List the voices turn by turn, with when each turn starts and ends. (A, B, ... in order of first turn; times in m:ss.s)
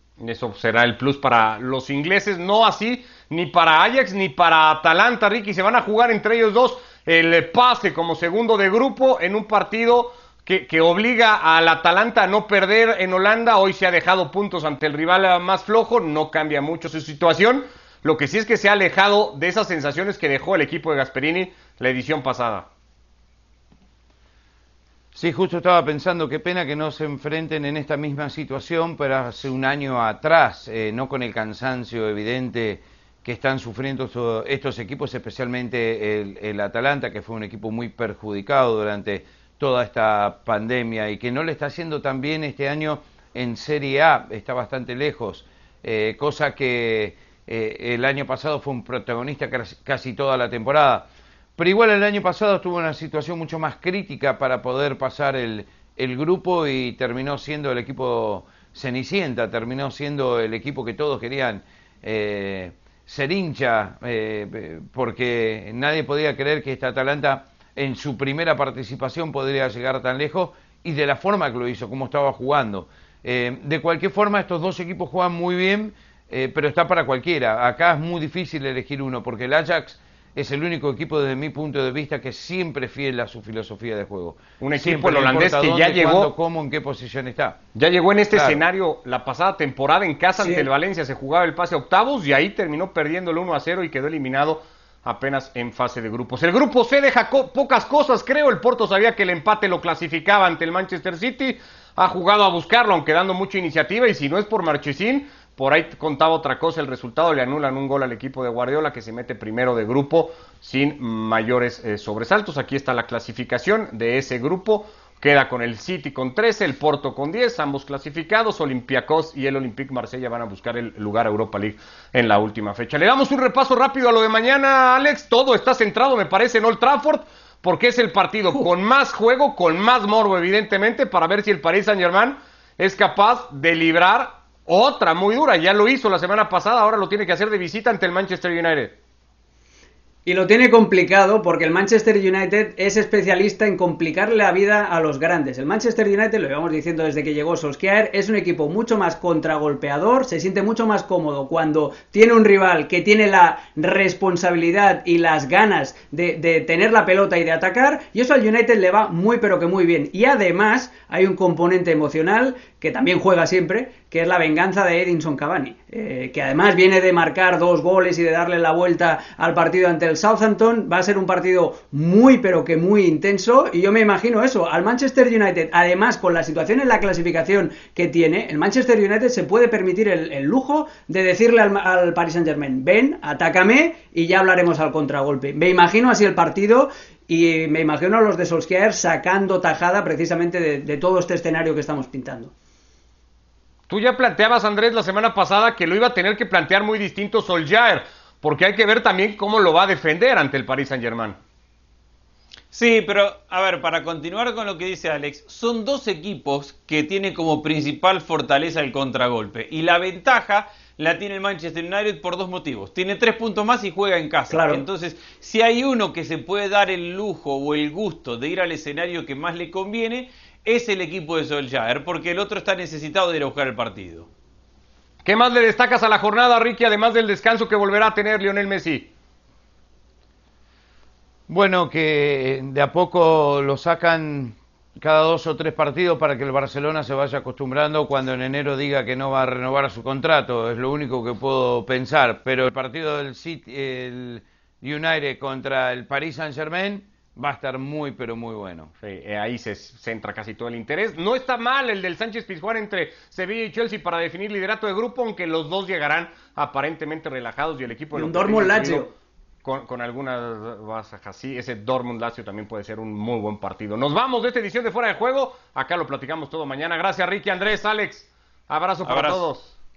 0:00.2-0:22.7 A
0:25.1-1:27.6 B
1:24.6-1:26.3 A
1:27.7-2:19.0 A
1:28.3-1:28.6 B
1:30.4-1:30.7 C
2:20.2-3:12.5 C
3:13.9-3:21.4 A
3:22.7-3:44.3 D
3:34.5-3:34.8 C
3:45.2-3:49.1 A
3:51.5-4:08.9 B
4:09.0-4:19.0 A
4:18.1-4:19.1 C
4:19.6-4:29.8 A
4:29.0-4:29.4 D